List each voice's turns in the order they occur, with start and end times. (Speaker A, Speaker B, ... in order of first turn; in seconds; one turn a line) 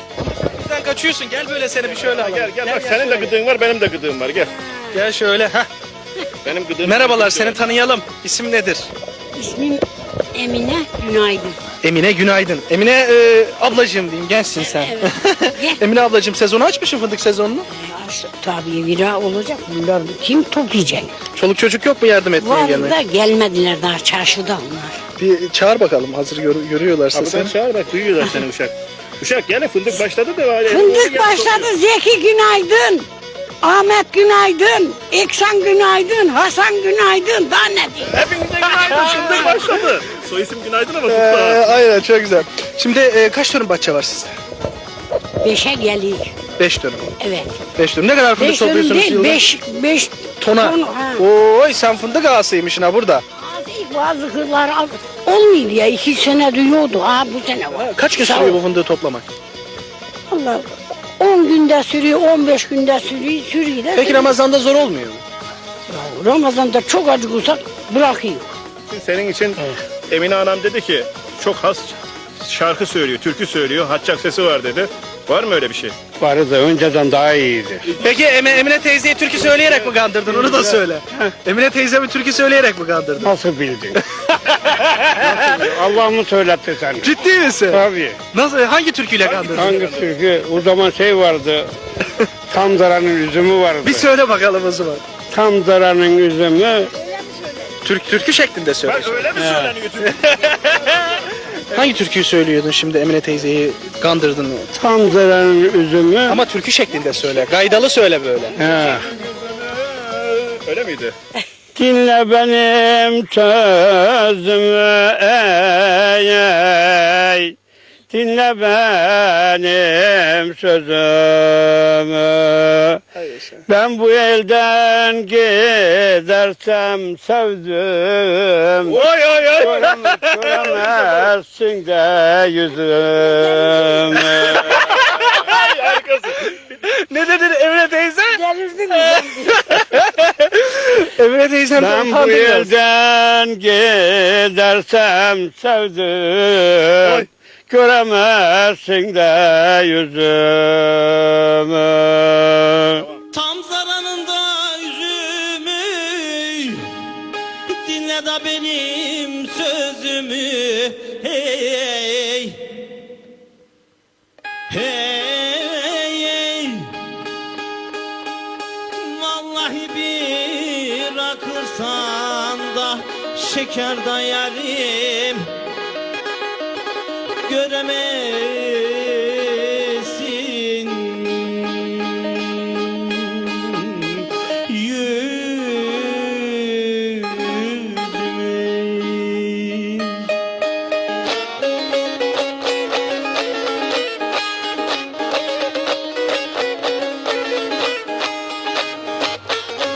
Speaker A: 0.2-3.3
Speaker B: 1.8-4.5
Speaker A: 4.9-5.7
Speaker B: 6.4-7.6
Speaker A: 6.8-8.9
Speaker C: 9.3-11.6
Speaker A: 11.8-17.7
Speaker C: 14.6-15.8
Speaker C: 17.7-21.1
Speaker A: 21.3-23.0
Speaker C: 22.4-25.0
Speaker A: 25.2-27.5
Speaker B: 27.1-31.7
Speaker C: 30.6-33.1
Speaker C: 33.6-38.2
Speaker B: 38.1-41.7
Speaker A: 38.7-39.6
Speaker A: 41.1-44.3
Speaker C: 45.4-46.4
Speaker A: 46.6-47.1
Speaker C: 47.2-47.6
Speaker A: 47.8-49.4
Speaker C: 48.4-51.2
Speaker A: 50.4-53.2
Speaker C: 53.4-58.6
Speaker A: 57.7-59.3
Speaker C: 60.3-64.3
Speaker A: 63.9-65.2
Speaker C: 65.9-68.6
Speaker B: 68.9-75.9
Speaker D: 76.2-77.9
Speaker A: 78.0-83.3
Speaker D: 80.3-81.3
Speaker D: 83.2-84.0
Speaker A: 84.1-85.7
Speaker D: 85.1-87.1
Speaker A: 87.0-89.8
Speaker D: 87.7-88.2
Speaker B: 89.2-90.1
Speaker D: 89.5-91.7
Speaker D: 92.5-94.1
Speaker A: 93.8-95.0
Speaker D: 95.3-96.9
Speaker A: 97.8-104.7
Speaker B: 98.8-101.1
Speaker D: 104.7-106.4
Speaker A: 106.3-108.6
Speaker D: 108.6-109.1
Speaker B: 108.7-111.1
Speaker D: 111.7-117.5
Speaker D: 118.1-123.0
Speaker A: 123.2-123.6
Speaker D: 123.7-129.0
Speaker B: 128.9-131.0
Speaker A: 129.0-130.2
Speaker D: 129.6-134.8
Speaker C: 133.4-133.7
Speaker A: 134.2-135.5
Speaker B: 134.7-136.6
Speaker A: 136.5-142.7
Speaker C: 138.4-139.5
Speaker D: 141.7-153.1
Speaker E: 153.3-156.7
Speaker E: 157.7-162.6
Speaker E: 164.7-166.9
Speaker E: 169.2-175.5
Speaker E: 177.5-186.1
Speaker A: 185.4-187.6
Speaker E: 188.0-189.4
Speaker A: 188.2-188.5